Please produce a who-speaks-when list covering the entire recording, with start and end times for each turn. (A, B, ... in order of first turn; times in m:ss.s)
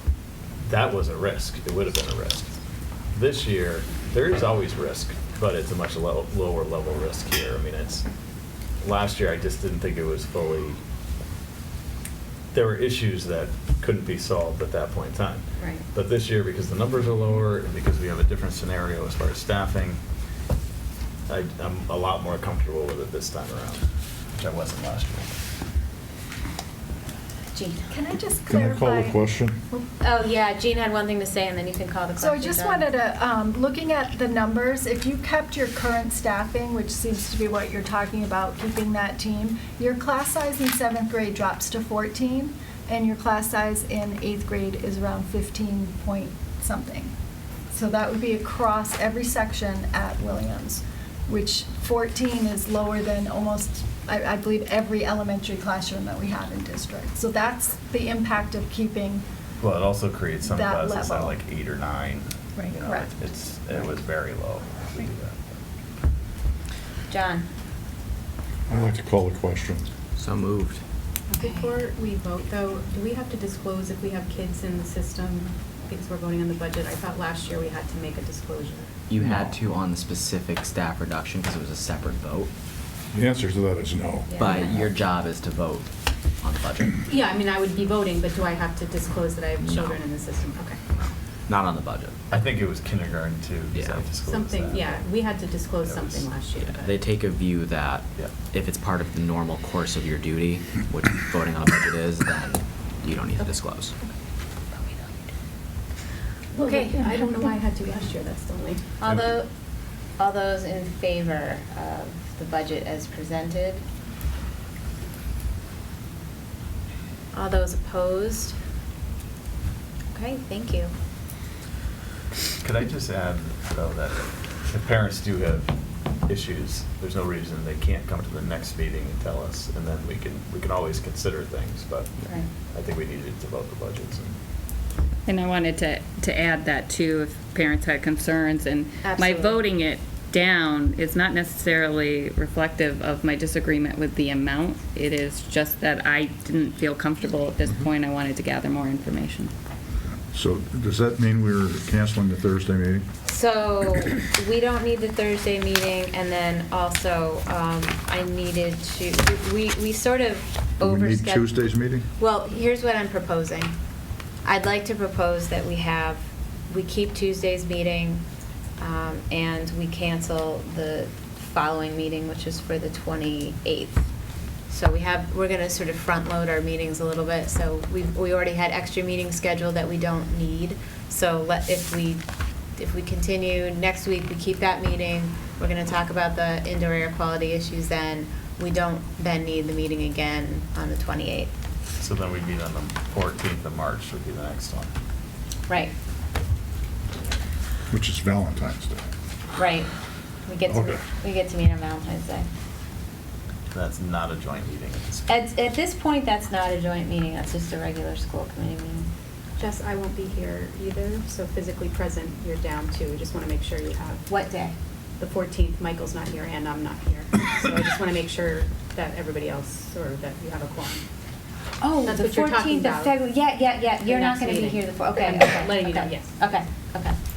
0:00.6-0:02.5 A
0:03.1-0:08.0 A
0:08.8-0:10.8 A
0:12.5-0:20.0 A
0:15.6-0:15.8 B
0:21.3-0:23.8 A
0:24.3-0:25.4 A
0:27.5-0:27.9 B
0:27.9-0:29.8 C
0:28.5-0:29.6 D
0:30.0-0:32.8 B
0:32.2-0:47.1 C
0:47.7-0:59.2 C
0:59.6-1:05.6 A
1:00.4-1:01.4 C
1:02.8-1:03.2 C
1:07.1-1:07.5 B
1:08.7-1:09.9 D
1:10.2-1:10.8 E
1:11.3-1:18.9 F
1:11.4-1:11.7 B
1:19.1-1:22.5 E
1:23.1-1:24.4 D
1:24.3-1:24.8 B
1:24.4-1:25.9 E
1:26.4-1:27.0 E
1:27.0-1:30.8 F
1:29.6-1:29.9 E
1:31.5-1:32.2 E
1:32.3-1:35.0 A
1:33.7-1:34.0 E
1:34.2-1:37.0 F
1:35.8-1:36.3 A
1:36.8-1:43.9 E
1:46.5-1:48.8 F
1:46.6-1:47.1 B
1:49.0-1:49.5 B
1:50.2-1:53.8 B
1:57.3-1:58.5 B
2:00.1-2:00.9 B
2:02.6-2:05.7 A
2:06.3-2:14.4 A
2:15.2-2:29.5 G
2:19.0-2:19.6 B
2:30.3-2:33.0 D
2:33.2-2:41.6 B
2:40.8-2:42.1 D
2:42.2-2:43.7 B
2:44.4-2:48.2 B
2:48.8-2:54.0 B
2:54.7-3:02.2 B
3:02.8-3:11.5 B
3:12.0-3:14.9 A
3:17.9-3:19.0 D
3:19.6-3:19.9 B
3:20.4-3:22.5 B
3:20.7-3:21.0 D
3:23.7-3:25.3 A
3:25.3-3:29.1 B
3:29.6-3:34.3 F
3:34.3-3:34.7 B
3:35.2-3:41.0 F
3:41.8-3:47.2 B
3:42.0-3:43.2 F
3:44.0-3:46.4 F